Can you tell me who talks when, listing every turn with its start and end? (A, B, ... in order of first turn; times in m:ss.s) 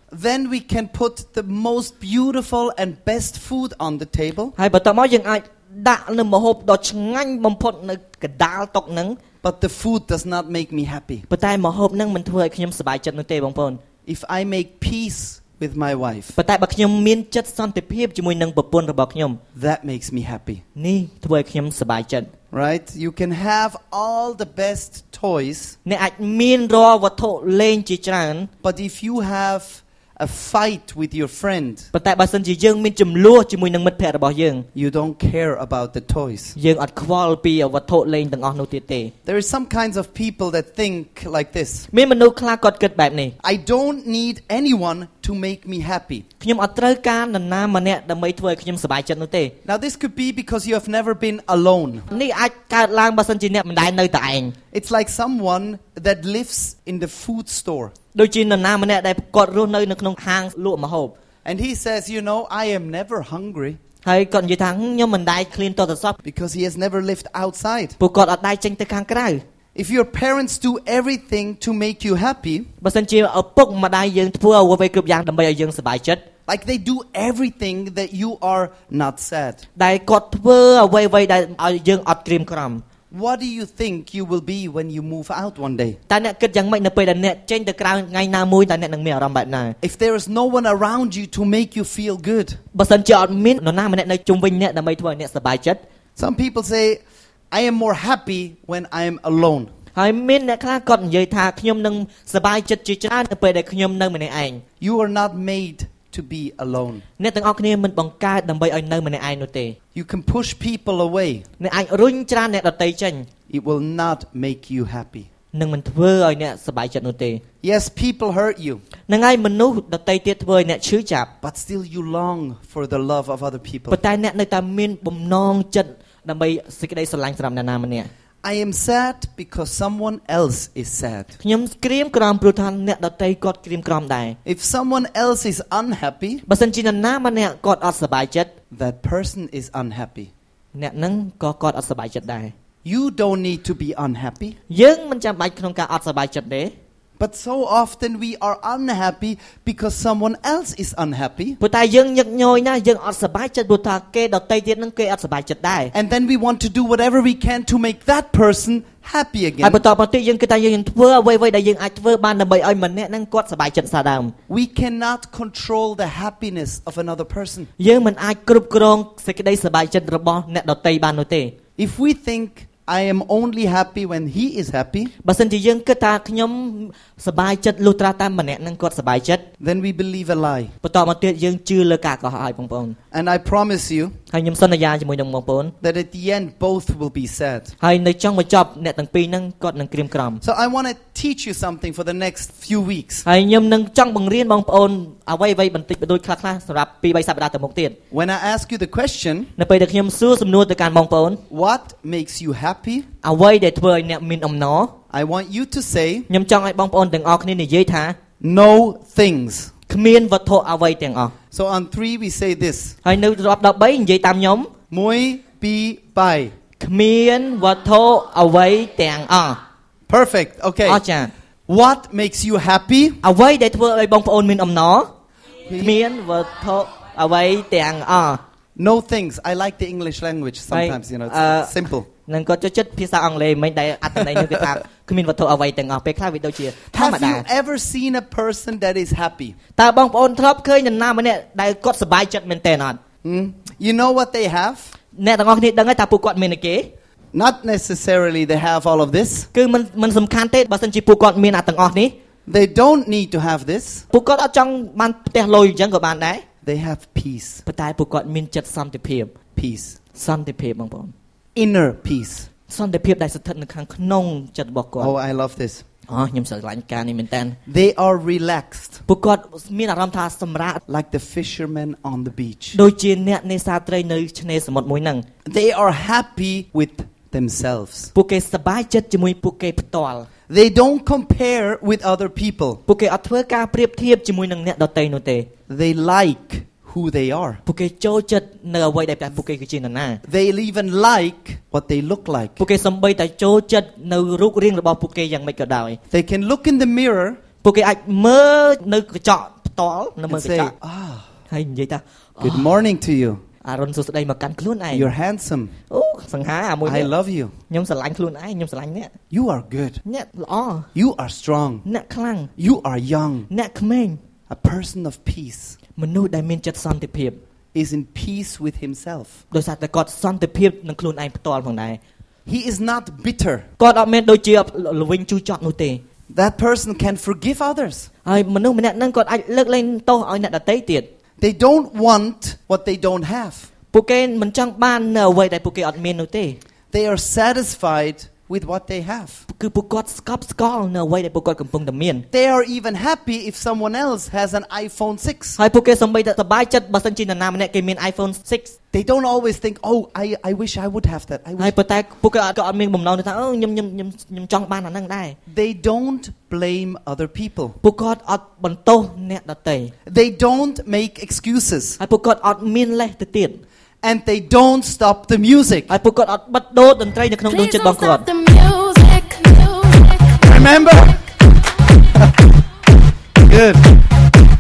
0:00.1-0:04.5 A
0:04.6-0:09.2 B
0:09.4-0:11.2 A
0:11.3-0:13.8 B
0:14.0-0:16.4 A
0:16.4-0:19.4 B
0:19.5-0:20.6 A
0:20.8-0:22.3 B
0:22.5-0:25.8 A
0:25.8-0:28.5 B
0:28.6-0:31.9 A
0:31.9-0:34.6 B
0:34.7-0:36.5 A
0:36.6-0:39.1 B
0:39.2-0:41.9 A
0:41.9-0:43.3 B
0:43.4-0:46.2 A
0:46.4-0:49.5 B
0:49.6-0:52.0 A
0:52.1-0:54.5 B
0:54.7-0:57.9 A
0:58.1-1:01.1 B
1:01.4-1:03.8 A
1:04.0-1:06.2 B
1:06.2-1:08.0 A
1:08.0-1:09.4 B
1:09.7-1:12.7 A
1:12.8-1:16.2 B
1:16.5-1:19.6 A
1:19.8-1:22.8 B
1:23.1-1:26.0 A
1:26.1-1:29.8 B
1:29.8-1:32.6 A
1:32.7-1:35.8 B
1:36.2-1:39.7 A
1:39.9-1:44.6 B
1:44.8-1:47.0 A
1:47.2-1:49.8 B
1:49.9-1:51.4 A
1:51.6-1:53.3 B
1:53.5-1:55.3 A
1:55.5-1:57.4 B
1:57.6-1:58.8 A
1:59.1-2:01.3 B
2:01.4-2:04.0 A
2:03.9-2:08.1 B
2:08.4-2:11.3 A
2:11.4-2:14.4 B
2:14.4-2:16.4 A
2:16.5-2:18.5 B
2:18.7-2:20.3 A
2:20.7-2:22.5 B
2:22.8-2:24.6 A
2:24.7-2:26.7 B
2:27.2-2:31.6 A
2:31.6-2:35.9 B
2:35.9-2:39.8 A
2:39.6-2:44.3 B
2:44.5-2:47.7 A
2:47.8-2:51.6 B
2:51.8-2:55.1 A
2:55.2-2:59.4 B
2:59.6-3:00.7 A
3:00.8-3:03.0 B
3:03.1-3:04.2 A
3:04.3-3:05.7 B
3:05.8-3:07.7 A
3:07.8-3:10.4 B
3:10.4-3:13.2 A
3:13.2-3:18.0 B
3:18.1-3:19.5 A
3:19.6-3:21.4 B
3:21.5-3:23.1 A
3:23.2-3:24.9 B
3:25.1-3:26.3 A
3:26.3-3:28.2 B
3:28.4-3:29.7 A
3:29.9-3:31.3 B
3:31.5-3:33.0 A
3:33.0-3:34.7 B
3:34.9-3:36.5 A
3:36.8-3:39.6 B
3:40.1-3:41.0 A
3:40.8-3:41.3 B
3:41.7-3:43.2 A
3:43.2-3:45.1 B
3:45.6-3:46.0 A
3:45.8-3:48.4 B
3:48.8-3:52.1 A
3:50.7-3:57.4 B
3:54.4-3:54.6 A
3:56.9-3:59.6 A
3:59.8-4:03.0 B
4:03.2-4:04.9 A
4:05.1-4:06.9 B
4:07.3-4:09.5 A
4:09.5-4:12.1 B
4:12.5-4:14.0 A
4:14.1-4:16.4 B
4:16.6-4:17.6 A
4:17.6-4:19.3 B
4:19.6-4:20.0 A
4:20.1-4:21.1 B
4:21.5-4:22.5 A
4:22.7-4:25.1 B
4:25.0-4:25.8 A
4:26.1-4:27.6 B
4:27.7-4:29.0 A
4:29.1-4:30.8 B
4:30.9-4:32.8 A
4:32.7-4:35.2 B
4:35.4-4:38.1 A
4:38.1-4:40.3 B
4:40.5-4:42.8 A
4:42.9-4:45.5 B
4:45.7-4:47.6 A
4:47.6-4:50.2 B
4:50.2-4:52.6 A
4:52.6-4:56.0 B
4:56.1-4:57.4 A
4:57.6-5:00.7 B
5:00.3-5:01.3 A
5:01.5-5:02.7 B
5:02.4-5:03.4 A
5:03.6-5:05.1 B
5:04.9-5:05.7 A
5:05.9-5:07.1 B
5:06.8-5:07.5 A
5:07.7-5:09.1 B
5:09.3-5:10.0 A
5:10.0-5:10.9 B
5:10.9-5:11.8 A
5:11.8-5:12.5 B
5:12.6-5:13.5 A
5:13.5-5:14.2 B
5:14.5-5:15.8 A
5:16.0-5:17.4 B
5:17.7-5:19.4 A
5:19.5-5:22.0 B
5:22.4-5:23.6 A
5:23.8-5:26.0 B
5:26.3-5:28.1 A
5:28.2-5:31.1 B
5:31.4-5:33.7 A
5:33.9-5:36.6 B
5:36.9-5:39.4 A
5:39.5-5:42.2 B
5:42.3-5:45.6 A
5:45.6-5:48.8 B
5:48.9-5:51.7 A
5:51.6-5:55.4 B
5:55.5-5:57.8 A
5:57.8-5:59.9 B
6:00.0-6:02.0 A
6:02.0-6:03.6 B
6:04.0-6:05.9 A
6:05.9-6:08.3 B
6:07.5-6:10.6 C
6:10.4-6:11.2 A
6:12.1-6:12.4 A
6:13.4-6:14.0 A